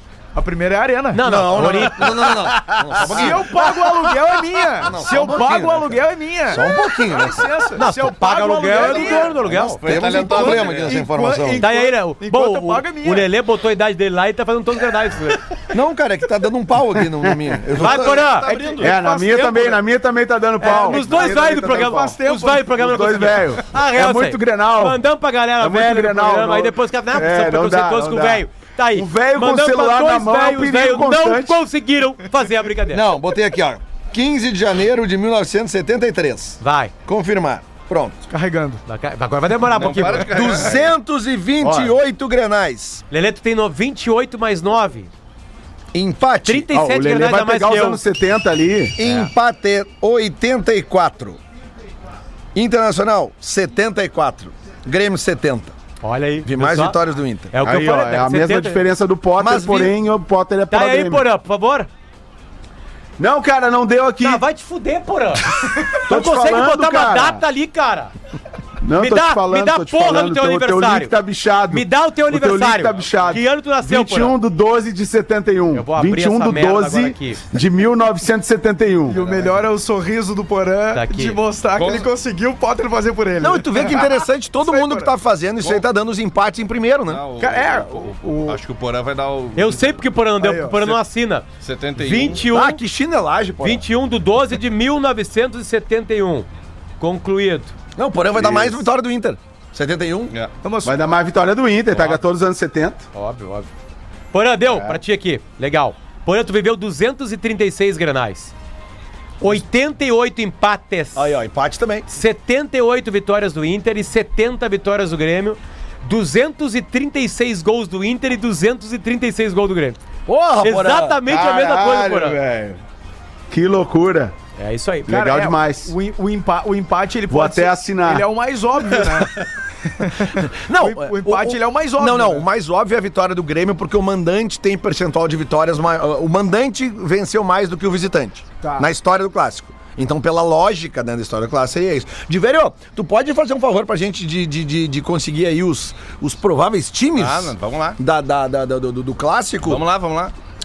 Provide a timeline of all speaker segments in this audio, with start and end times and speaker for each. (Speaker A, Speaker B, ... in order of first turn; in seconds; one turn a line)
Speaker A: 0.3-1.2
Speaker B: 1.1-2.2
Speaker C: 1.2-4.2
Speaker A: 3.0-9.4
Speaker C: 4.7-7.5
Speaker B: 7.8-9.8
Speaker D: 8.7-11.0
Speaker C: 9.4-11.6
Speaker A: 10.0-13.3
Speaker B: 11.6-15.5
Speaker C: 15.7-18.3
Speaker B: 17.8-18.5
Speaker D: 18.0-19.0
Speaker A: 18.5-19.8
Speaker E: 18.8-22.1
Speaker B: 20.6-33.0
Speaker A: 20.6-22.8
Speaker E: 22.8-25.0
Speaker E: 25.6-31.6
Speaker C: 32.9-38.2
Speaker B: 36.6-36.9
Speaker A: 38.3-38.8
Speaker B: 38.9-40.7
Speaker D: 39.7-40.9
Speaker C: 40.2-43.0
Speaker E: 41.6-41.9
Speaker B: 43.1-45.1
Speaker C: 45.9-46.7
Speaker B: 46.4-48.0
Speaker E: 46.7-49.0
Speaker C: 49.0-51.4
Speaker C: 52.5-55.8
Speaker B: 56.0-58.8
Speaker C: 56.4-57.5
Speaker E: 57.6-61.2
Speaker C: 59.4-60.0
Speaker B: 60.7-61.9
Speaker E: 63.2-64.4
Speaker B: 64.2-68.1
Speaker E: 65.9-67.4
Speaker E: 68.8-79.2
Speaker B: 69.0-71.2
Speaker B: 71.7-74.3
Speaker B: 75.7-77.4
Speaker A: 79.1-85.1
Speaker B: 80.9-81.4
Speaker D: 81.8-82.1
Speaker C: 83.4-87.2
Speaker D: 87.1-90.0
Speaker A: 87.4-88.6
Speaker B: 89.5-91.5
Speaker A: 90.4-90.9
Speaker D: 91.6-92.5
Speaker B: 92.0-92.8
Speaker C: 92.5-93.8
Speaker B: 93.6-96.5
Speaker B: 97.0-97.8
Speaker C: 98.0-100.3
Speaker A: 100.6-101.0
Speaker E: 100.8-103.0
Speaker B: 103.1-103.7
Speaker B: 104.3-108.5
Speaker E: 104.7-105.0
Speaker B: 109.4-111.4
Speaker C: 111.2-112.1
Speaker B: 112.1-120.0
Speaker C: 120.3-121.2
Speaker B: 120.6-122.4
Speaker E: 121.3-122.8
Speaker E: 123.5-124.3
Speaker B: 124.6-125.1
Speaker E: 125.1-125.9
Speaker A: 125.1-132.5
Speaker E: 127.3-128.3
Speaker C: 130.6-149.8
Speaker A: 138.6-138.9
Speaker D: 147.2-148.0
Speaker D: 149.6-150.3